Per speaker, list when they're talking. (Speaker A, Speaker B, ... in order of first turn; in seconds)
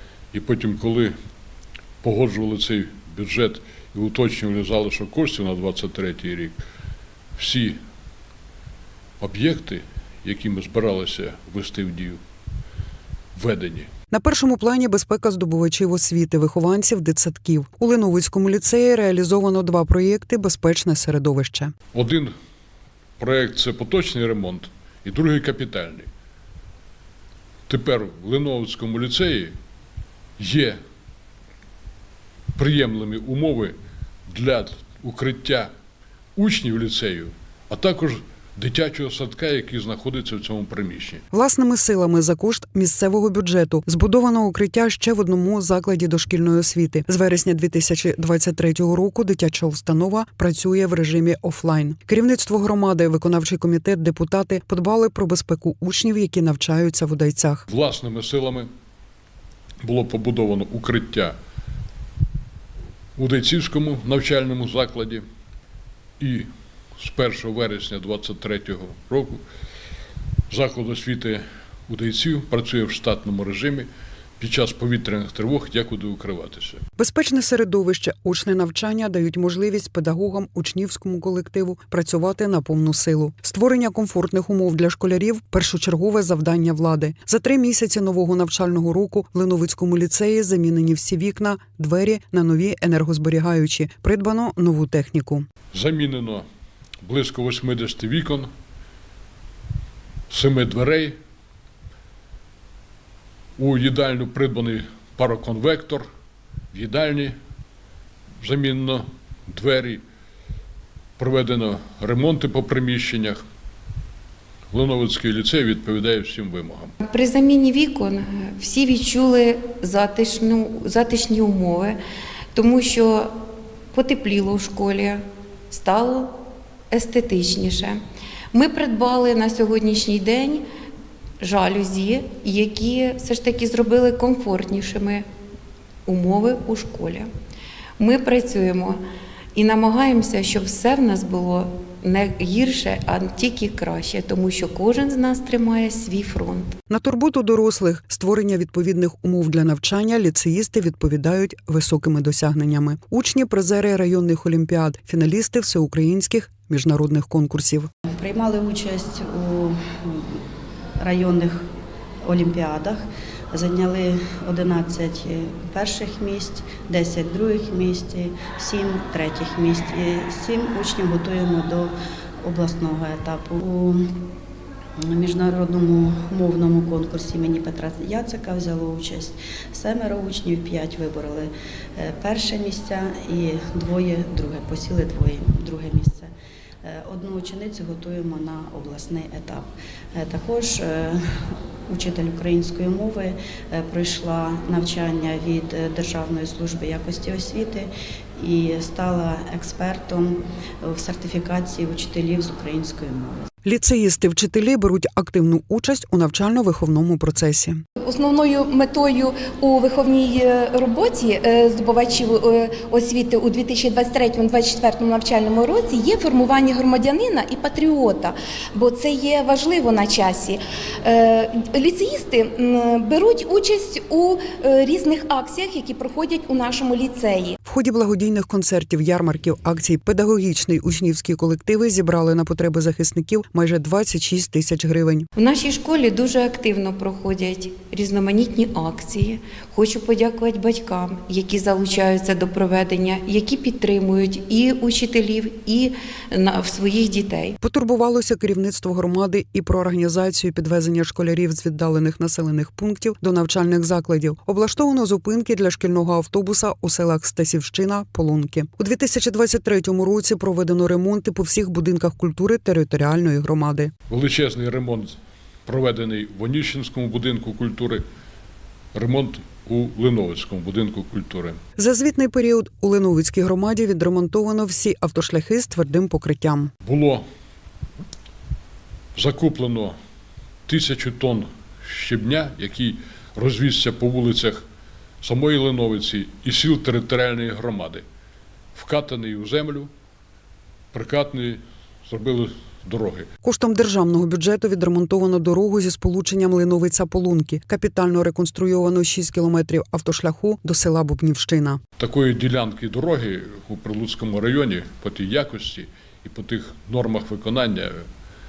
Speaker A: 0.3-1.1, 2.0-6.6, 7.4-7.8, 9.2-12.2, 13.3-13.9, 21.9-22.3, 23.2-26.1, 27.7-29.6, 30.4-30.8, 32.5-33.7, 34.3-35.7, 36.4-41.2, 57.7-58.7, 59.8-61.3, 63.2-65.2, 66.2-69.4, 70.5-76.8, 95.7-96.5, 97.0-98.5, 100.3-101.2, 103.6-106.1, 106.7-107.4, 108.4-110.0, 111.2-113.4, 114.7-117.0, 264.1-265.1, 265.7-268.0, 268.9-271.6, 276.8-277.2, 279.1-280.0, 280.7-284.6, 285.2-288.0, 288.8-289.9, 290.9-293.3, 302.0-308.1
Speaker B: 14.1-21.7, 41.3-57.6, 77.0-95.5, 146.9-157.9, 203.6-207.8, 227.6-235.3, 247.6-263.9, 271.8-276.7, 293.4-301.8
Speaker C: 117.0-122.0, 122.5-123.3, 123.9-126.4, 126.9-128.0, 128.5-130.6, 131.4-135.2, 136.1-137.3, 138.0-139.0, 139.6-146.8, 235.4-247.6
Speaker D: 158.2-160.4, 161.0-161.7, 162.2-174.0, 175.0-186.3, 186.8-203.5
Speaker E: 208.0-227.6